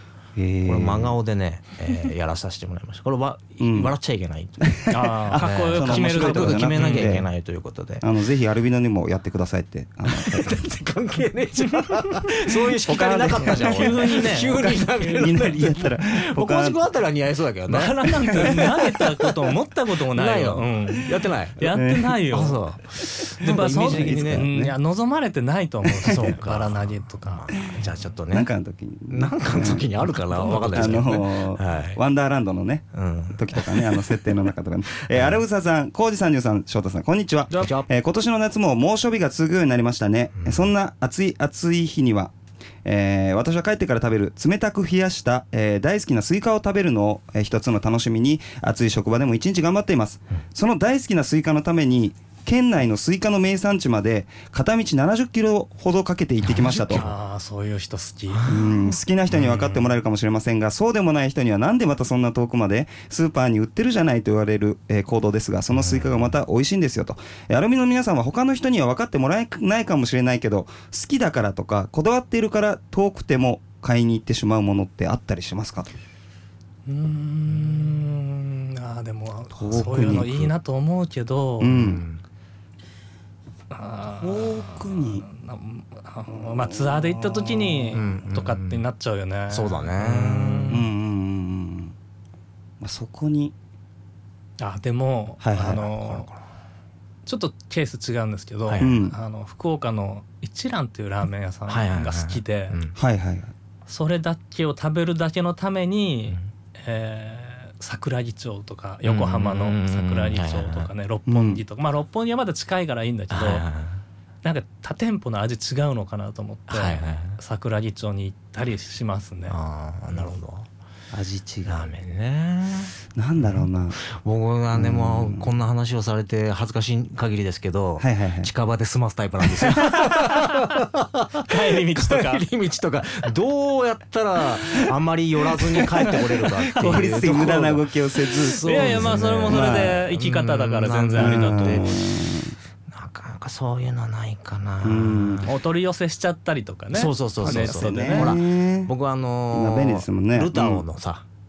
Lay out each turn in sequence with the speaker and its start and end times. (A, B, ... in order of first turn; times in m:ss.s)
0:00.4-0:01.2 A
0:00.6-0:08.0 B
0:03.6-0:04.0 A
0:04.6-0:07.3 A
0:04.9-0:07.2 C
0:08.0-0:10.7 A
0:10.1-0:19.5 B
0:12.8-0:16.8 A
0:13.4-0:15.4 C
0:17.7-0:27.5 C
0:20.1-0:21.7 B
0:21.7-0:22.2 A
0:22.3-0:24.5 B
0:23.5-0:24.8 A
0:26.0-0:26.3 A
0:26.1-0:28.5 B
0:28.3-0:42.3 A
0:29.1-0:32.0 B
0:30.3-0:31.2 C
0:32.9-0:34.3 B
0:35.0-0:35.4 B
0:37.5-0:37.8 C
0:37.5-0:37.9 B
0:40.4-0:40.7 B
0:42.8-0:57.1 A
0:56.4-0:57.2 B
0:56.8-0:58.6 C
0:58.3-0:58.7 B
0:58.5-1:15.9 A
0:59.3-0:59.8 B
1:05.7-1:06.3 B
1:16.9-1:21.9 C
1:19.6-1:20.5 A
1:21.6-1:22.0 A
1:21.7-1:22.2 B
1:23.7-1:30.8 C
1:24.2-1:25.3 A
1:26.3-1:28.0 A
1:27.9-1:28.8 B
1:29.5-1:30.8 B
1:30.7-1:32.0 A
1:32.8-1:33.5 A
1:34.6-1:36.3 C
1:35.4-1:35.9 A
1:35.8-1:36.4 B
1:37.3-1:42.8 C
1:38.7-1:39.0 B
1:38.8-1:39.2 A
1:41.7-1:43.0 B
1:43.0-1:43.5 A
1:43.9-1:53.7 C
1:49.0-1:50.9 B
1:51.3-1:51.6 A
1:53.3-1:54.0 B
1:54.4-1:59.6 C
1:56.7-1:57.4 B
1:59.5-2:00.7 B
2:01.1-2:01.9 A
2:01.7-2:22.0 B
2:03.2-2:04.0 A
2:04.7-2:05.5 A
2:08.0-2:08.5 A
2:10.1-2:10.4 C
2:11.4-2:12.5 C
2:16.0-2:17.4 C
2:16.8-2:20.0 A
2:18.6-2:21.9 C
2:21.2-2:22.6 A
2:22.9-2:25.5 B
2:24.8-2:25.5 A
2:25.4-2:28.4 C
2:26.9-2:31.2 B
2:27.4-2:28.9 A
2:29.5-2:30.8 A